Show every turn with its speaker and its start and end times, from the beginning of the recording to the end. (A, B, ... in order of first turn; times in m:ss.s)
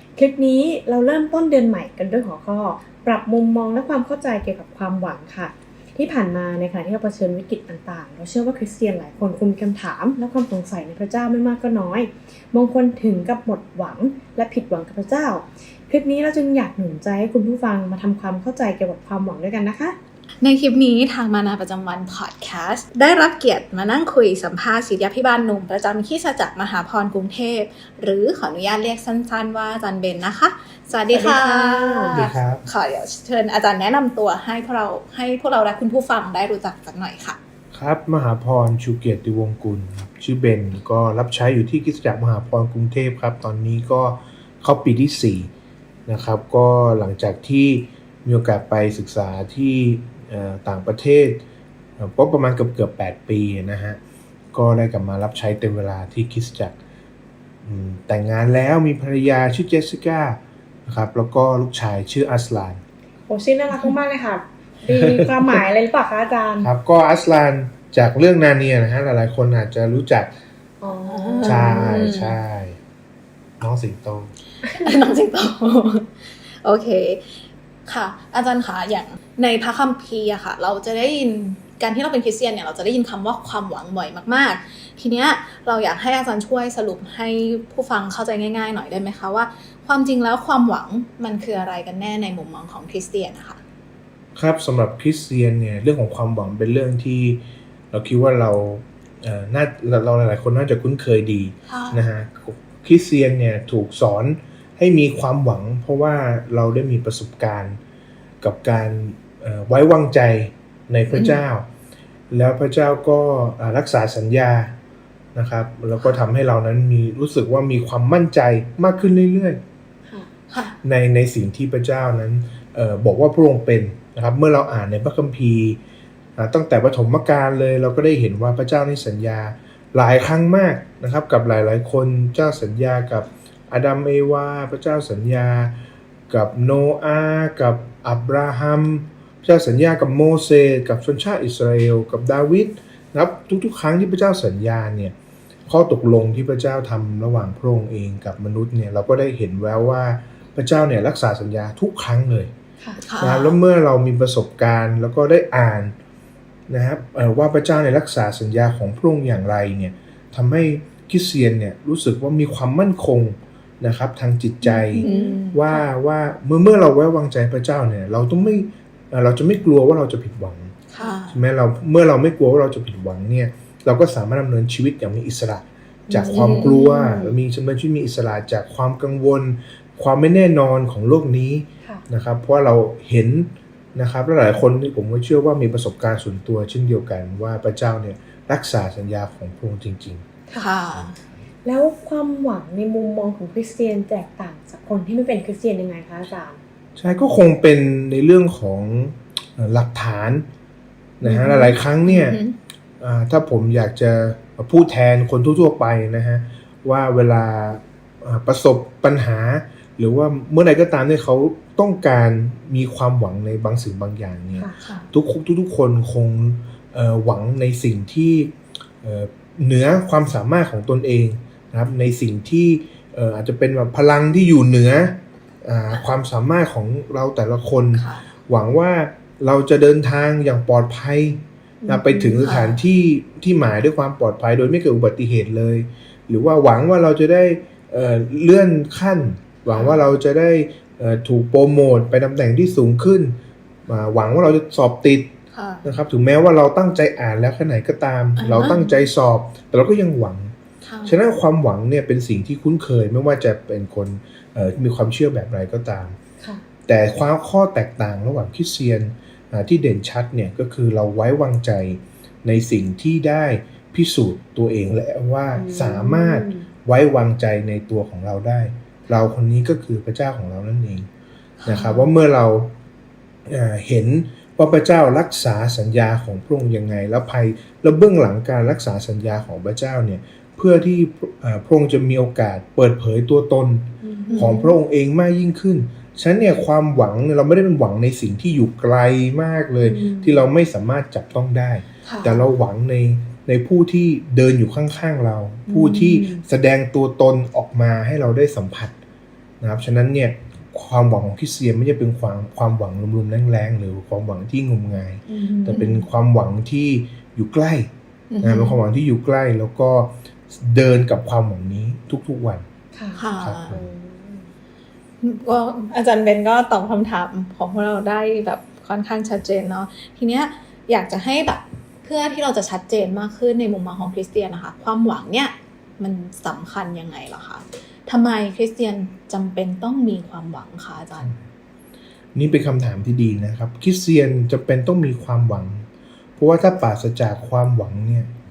0:00.2-0:20.0 A
0:20.4-0:37.4 B
0:31.1-0:32.2 A
0:32.1-0:32.6 C
0:37.7-0:45.5 C
0:46.1-0:51.4 C
0:52.0-0:54.0 C
0:54.5-0:56.8 C
0:57.6-1:02.8 C
1:03.3-1:06.7 A
1:04.9-1:05.6 C
1:06.6-1:10.3 C
1:10.8-1:12.0 A
1:11.0-1:12.4 B
1:11.4-1:12.8 C
1:13.6-1:14.3 C
1:14.6-1:33.6 B
1:34.3-1:47.8 C
1:41.7-1:42.0 B
1:48.4-1:51.7 C
1:51.1-1:51.4 B
1:52.3-1:54.8 C
1:55.3-1:59.6 C
2:00.5-2:00.8 B
2:00.8-2:05.8 C
2:06.4-2:25.1 C
2:25.7-2:32.5 C
2:33.0-2:33.6 B
2:33.2-2:35.9 C
2:36.7-2:50.8 C
2:44.6-2:45.4 A
2:45.0-2:45.8 B
2:50.9-2:51.4 B
2:51.3-3:10.2 C
2:56.1-2:57.4 A
2:56.3-2:56.8 B
3:10.6-3:11.2 B
3:11.6-3:16.6 A
3:17.0-3:20.5 C
3:21.2-3:22.4 C
3:21.2-3:21.8 A
3:22.0-3:22.6 B
3:23.0-4:05.3 C
3:34.8-3:35.1 B
3:47.9-3:48.3 B
3:51.8-3:52.5 A
3:52.4-3:52.8 B
3:59.6-4:00.1 B
4:05.5-4:05.9 B
4:05.8-4:10.5 C
4:08.4-4:09.0 B
4:10.8-4:11.2 B
4:11.0-4:16.2 C
4:16.9-4:31.1 C
4:25.5-4:26.7 A
4:31.6-4:32.1 B
4:31.6-4:32.7 C
4:33.5-4:58.9 C
4:44.0-4:44.7 A
4:44.3-4:44.6 B
4:49.8-4:50.4 A
4:52.0-4:52.3 B
4:52.1-4:52.4 A
4:55.7-4:56.4 A
4:59.6-5:07.9 C
5:05.3-5:05.8 A
5:05.7-5:06.0 B
5:08.3-5:08.8 B
5:08.4-5:12.6 C
5:12.9-5:14.5 A
5:13.2-5:13.7 B
5:13.4-5:13.9 C
5:15.2-5:31.4 B
5:32.3-5:35.8 C
5:36.4-5:38.3 C